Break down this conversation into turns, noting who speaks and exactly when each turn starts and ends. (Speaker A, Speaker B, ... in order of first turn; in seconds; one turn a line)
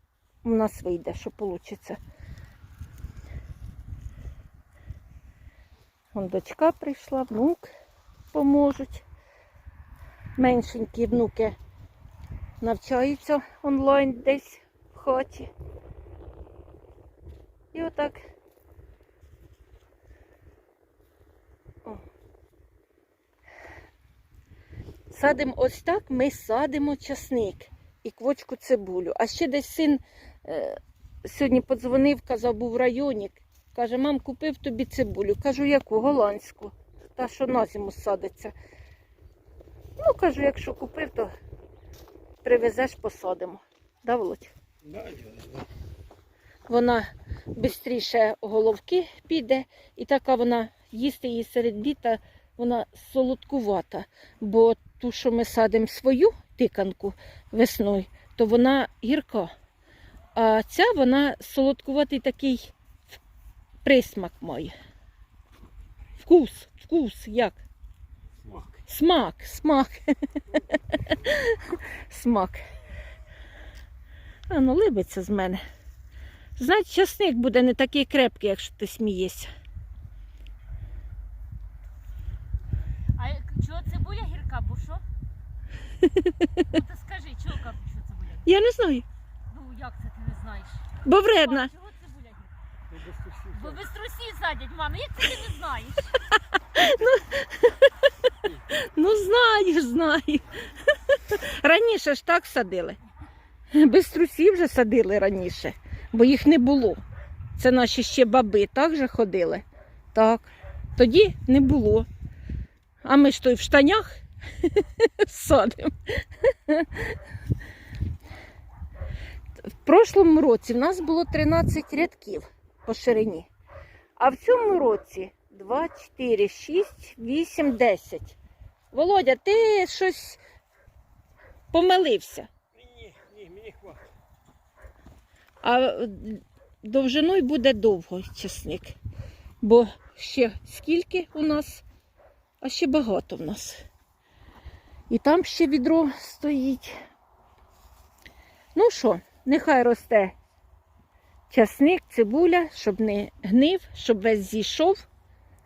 Speaker A: 0.4-2.0
Speaker A: 6.1-7.7
Speaker A: 8.3-9.0
Speaker A: 10.4-11.6
Speaker A: 12.6-15.5
Speaker A: 17.7-18.2
Speaker A: 25.1-38.5
Speaker A: 40.0-41.3
Speaker A: 42.4-44.5
Speaker B: 44.8-45.7
Speaker A: 46.7-59.5
Speaker A: 60.4-62.7
Speaker A: 63.8-64.7
Speaker A: 66.2-67.6
Speaker B: 68.4-68.8
Speaker A: 68.9-70.0
Speaker A: 70.7-72.6
Speaker A: 74.5-75.6
Speaker A: 76.6-79.5
Speaker C: 83.2-85.0
Speaker A: 86.0-86.6
Speaker C: 86.7-88.5
Speaker A: 88.4-89.0
Speaker C: 89.5-92.5
Speaker A: 91.0-91.7
Speaker B: 92.9-93.8
Speaker C: 93.5-96.2
Speaker A: 96.5-97.9
Speaker A: 98.5-103.0
Speaker A: 103.7-107.0
Speaker A: 107.6-112.1
Speaker A: 113.0-117.2
Speaker A: 119.8-123.5
Speaker A: 124.2-128.4
Speaker A: 128.9-130.4
Speaker A: 131.7-132.5
Speaker B: 132.8-134.1
Speaker A: 135.6-139.0
Speaker A: 139.6-141.8
Speaker A: 142.6-143.8
Speaker A: 145.1-146.9
Speaker A: 148.8-150.4
Speaker A: 151.5-155.1